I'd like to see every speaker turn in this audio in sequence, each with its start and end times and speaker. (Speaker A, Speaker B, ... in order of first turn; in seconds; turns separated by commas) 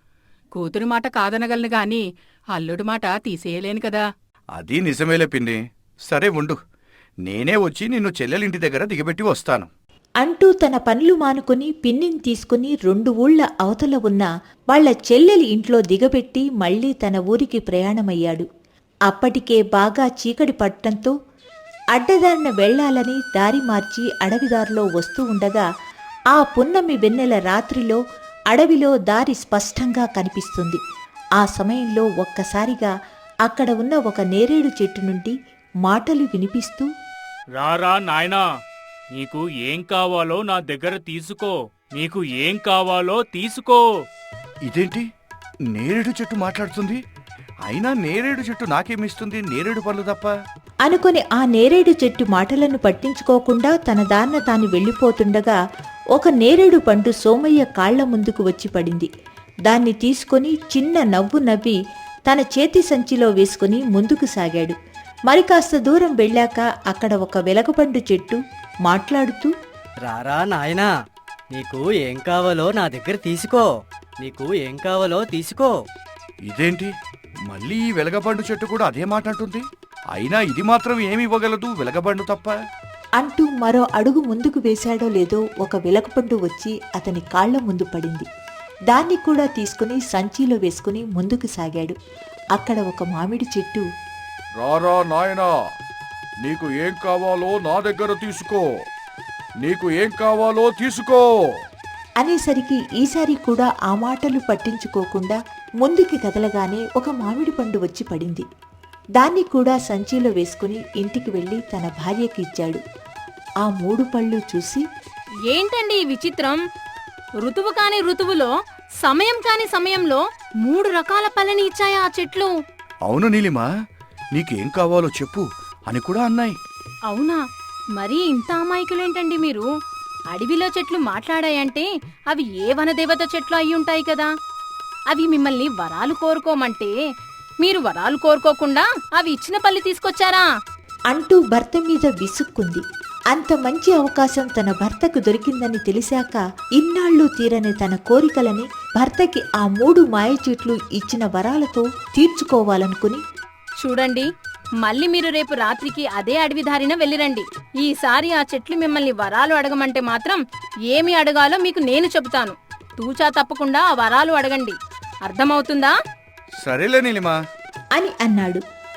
Speaker A: 0.5-2.0, Speaker A: 2.5-4.0, Speaker B: 4.6-6.5, Speaker B: 7.2-9.7, Speaker C: 10.2-18.4, Speaker C: 19.1-21.1, Speaker C: 21.9-25.6, Speaker C: 26.3-28.0, Speaker C: 28.5-30.8, Speaker C: 31.4-32.9, Speaker C: 33.5-35.3, Speaker C: 35.9-36.9, Speaker D: 37.5-38.5, Speaker D: 39.1-44.0, Speaker B: 44.7-45.0, Speaker B: 45.8-47.0, Speaker B: 47.7-50.3, Speaker C: 50.8-55.6, Speaker C: 56.1-59.1, Speaker C: 59.7-61.8, Speaker C: 62.3-64.7, Speaker C: 65.3-69.5, Speaker E: 70.0-70.9, Speaker E: 71.5-75.7, Speaker B: 76.5-76.9, Speaker B: 77.5-82.5, Speaker C: 83.2-88.2, Speaker C: 88.9-91.9, Speaker C: 92.5-93.8, Speaker B: 94.6-95.5, Speaker B: 96.4-98.7, Speaker B: 99.6-101.3, Speaker C: 102.2-108.4, Speaker C: 109.2-112.8, Speaker C: 113.6-114.8, Speaker F: 115.5-116.6, Speaker F: 117.4-118.5, Speaker F: 119.0-122.5, Speaker B: 123.1-123.7, Speaker B: 124.3-126.5, Speaker F: 127.1-127.4, Speaker F: 128.0-129.7, Speaker F: 130.3-134.3, Speaker F: 135.1-136.9, Speaker F: 137.6-140.4, Speaker C: 141.1-153.2, Speaker F: 153.8-154.2, Speaker F: 154.8-160.4, Speaker F: 160.9-164.7, Speaker F: 165.2-165.9, Speaker B: 166.6-167.4, Speaker C: 168.0-168.6